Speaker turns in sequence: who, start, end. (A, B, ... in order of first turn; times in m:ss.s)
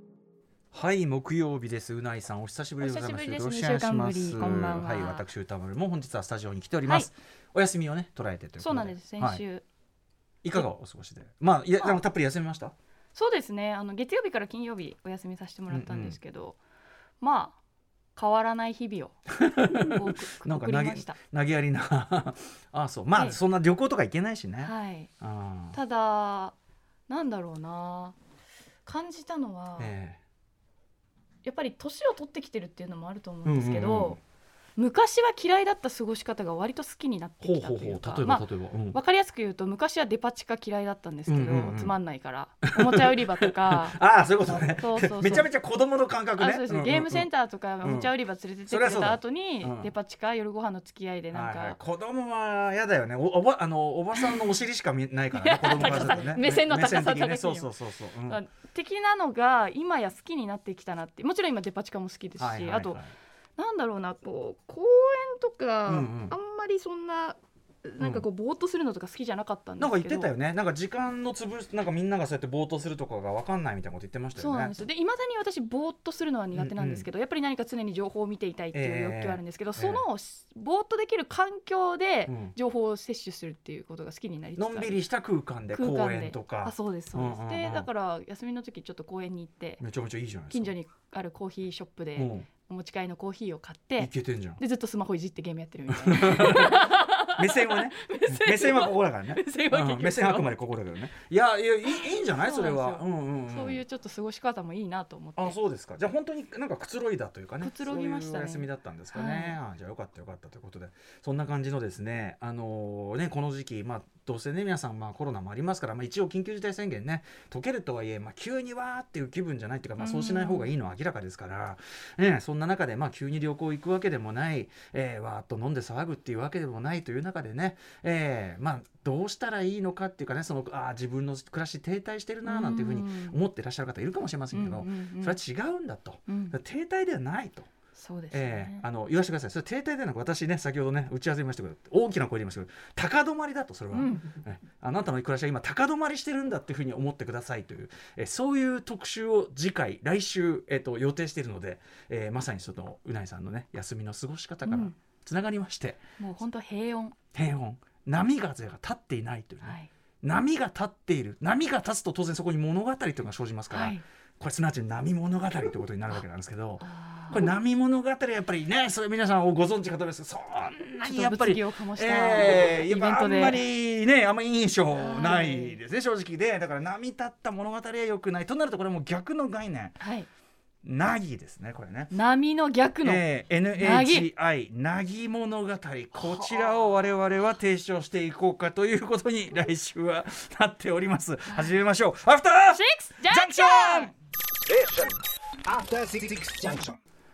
0:00.7-0:09.4 A
0:02.8-0:05.2 B
0:08.6-0:09.6 B
0:10.4-0:12.7 A
0:13.1-0:16.6 B
0:15.7-0:16.2 A
0:17.2-0:17.6 B
0:18.2-0:19.1 B
0:19.3-0:25.8 A
0:19.7-0:21.1 B
0:24.6-0:25.1 B
0:25.7-0:26.5 B
0:27.1-0:28.1 B
0:28.8-0:29.9 B
0:29.8-0:30.2 A
0:31.4-0:34.2 B
0:33.4-0:34.2 A
0:34.8-0:43.9 B
0:37.4-0:39.0 A
0:41.3-0:42.0 A
0:42.6-0:48.1 A
0:44.5-0:45.5 B
0:46.4-0:51.8 B
0:48.7-0:49.9 A
0:51.3-0:58.4 A
0:55.4-0:57.7 B
0:58.2-1:03.0 B
1:02.4-1:03.1 A
1:03.6-1:10.3 B
1:05.8-1:06.3 A
1:08.0-1:08.2 A
1:09.8-1:14.7 A
1:14.4-1:25.0 B
1:16.5-1:17.1 A
1:18.7-1:20.0 A
1:22.3-1:22.5 A
1:24.6-1:27.9 A
1:25.7-1:29.8 B
1:29.8-1:30.7 A
1:30.5-1:40.5 B
1:32.2-1:32.5 A
1:34.0-1:34.6 A
1:35.9-1:43.8 A
1:42.1-1:45.5 B
1:45.4-2:17.7 A
1:47.6-1:49.6 B
2:00.0-2:00.7 B
2:12.4-2:13.3 B
2:14.5-2:15.3 B
2:16.3-2:16.5 B
2:18.0-2:18.8 B
2:18.3-2:36.0 A
2:23.9-2:24.2 B
2:34.7-2:34.9 B
2:36.2-2:37.1 B
2:37.3-3:00.0 A
2:43.7-2:44.0 B
2:46.8-2:47.5 B
2:51.0-2:53.6 B
2:54.9-2:55.8 B
3:00.0-3:00.3 B
3:00.8-3:02.2 A
3:02.1-3:03.2 B
3:03.0-3:14.1 A
3:03.8-3:04.2 B
3:06.2-3:06.8 B
3:12.7-3:14.1 B
3:14.7-3:17.0 C